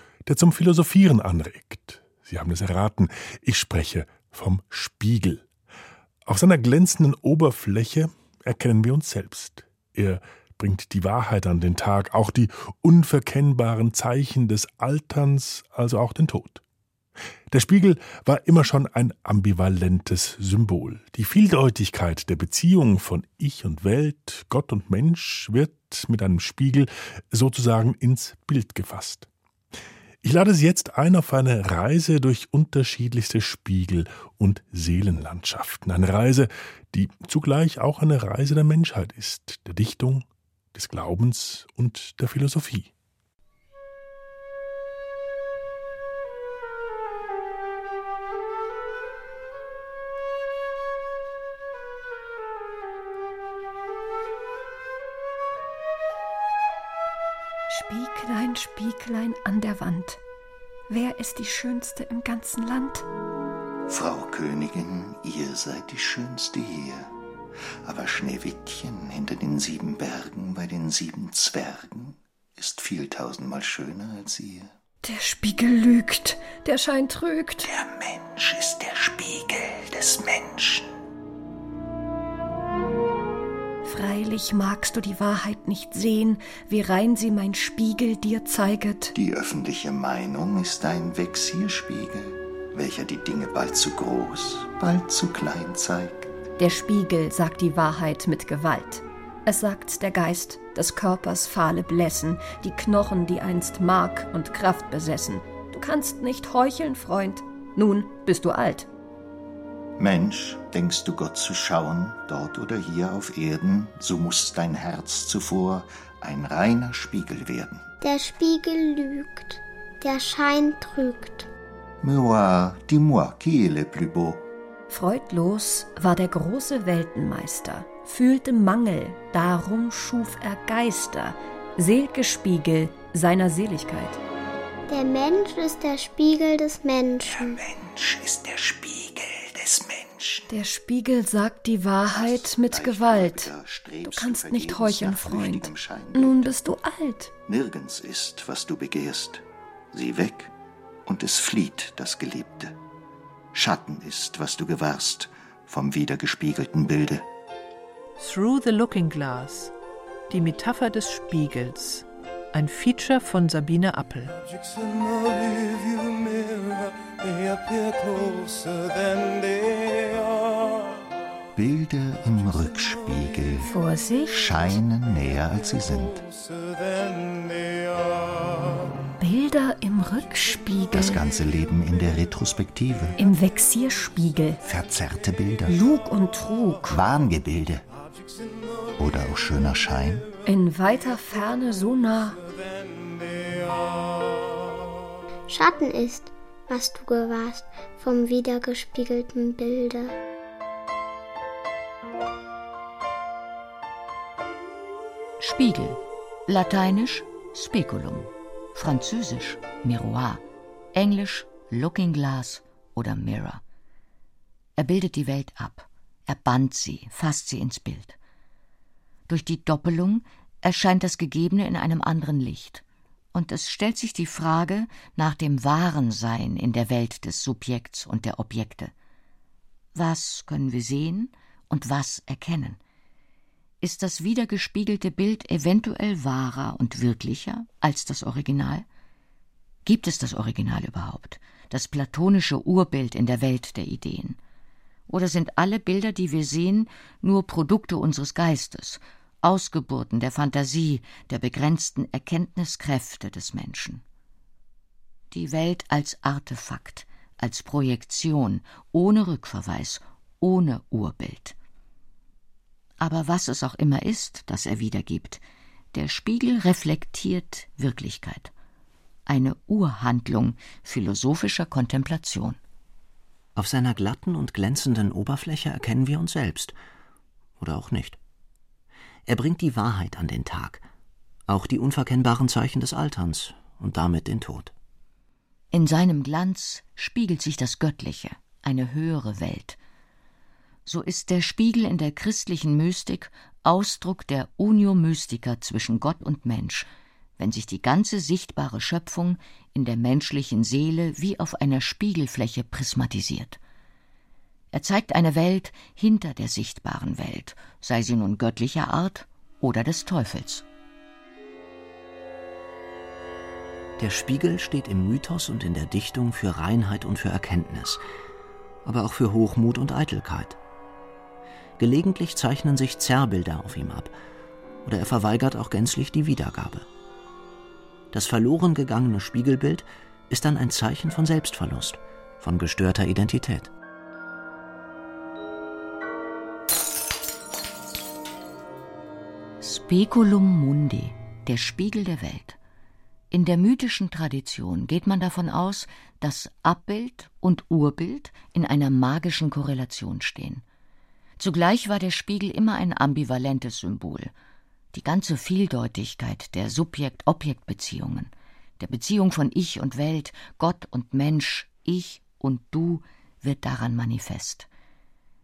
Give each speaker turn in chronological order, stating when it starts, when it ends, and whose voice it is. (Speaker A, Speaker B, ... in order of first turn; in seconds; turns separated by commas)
Speaker A: 0.2-5.4, Speaker A: 6.2-16.6, Speaker A: 17.5-29.3, Speaker A: 30.2-42.9, Speaker B: 57.7-60.2, Speaker B: 60.9-63.1, Speaker C: 63.9-67.1, Speaker C: 67.8-74.7, Speaker B: 75.0-77.7, Speaker C: 77.6-80.9, Speaker B: 83.8-89.1, Speaker C: 89.1-96.3, Speaker B: 96.6-108.9, Speaker C: 110.0-117.8, Speaker D: 118.0-121.5, Speaker C: 122.0-124.4, Speaker B: 124.9-134.2, Speaker D: 134.9-137.6, Speaker C: 137.2-140.5, Speaker B: 140.5-143.5, Speaker C: 142.1-146.5, Speaker B: 144.0-147.3, Speaker C: 147.4-150.5, Speaker C: 151.1-152.8, Speaker C: 153.5-157.2, Speaker E: 158.2-159.7, Speaker E: 160.3-164.4, Speaker C: 171.5-173.7, Speaker B: 173.6-174.8, Speaker C: 174.3-176.2, Speaker B: 179.2-181.2, Speaker C: 180.9-183.2, Speaker B: 183.2-184.6, Speaker C: 184.6-185.8, Speaker B: 185.7-187.0, Speaker C: 186.9-187.8, Speaker C: 189.0-190.3, Speaker B: 190.4-192.5, Speaker D: 195.5-200.2, Speaker F: 205.4-210.4, Speaker F: 210.9-213.6, Speaker F: 214.8-218.2, Speaker F: 219.3-228.9, Speaker F: 229.9-232.8, Speaker F: 233.8-238.8, Speaker F: 239.8-244.4, Speaker F: 245.1-254.0, Speaker F: 255.3-261.6, Speaker F: 263.0-265.4, Speaker F: 265.9-268.5, Speaker F: 269.3-272.6, Speaker G: 273.6-276.7, Speaker G: 277.6-278.2, Speaker G: 279.3-280.8, Speaker G: 281.5-284.7, Speaker F: 285.7-289.8, Speaker F: 290.9-303.6, Speaker F: 304.7-310.6, Speaker G: 314.0-318.0, Speaker G: 318.8-320.6, Speaker G: 321.8-324.1, Speaker G: 324.8-326.9, Speaker G: 328.1-333.7, Speaker F: 339.6-342.6, Speaker F: 343.3-350.6, Speaker F: 351.4-354.3, Speaker F: 354.9-364.7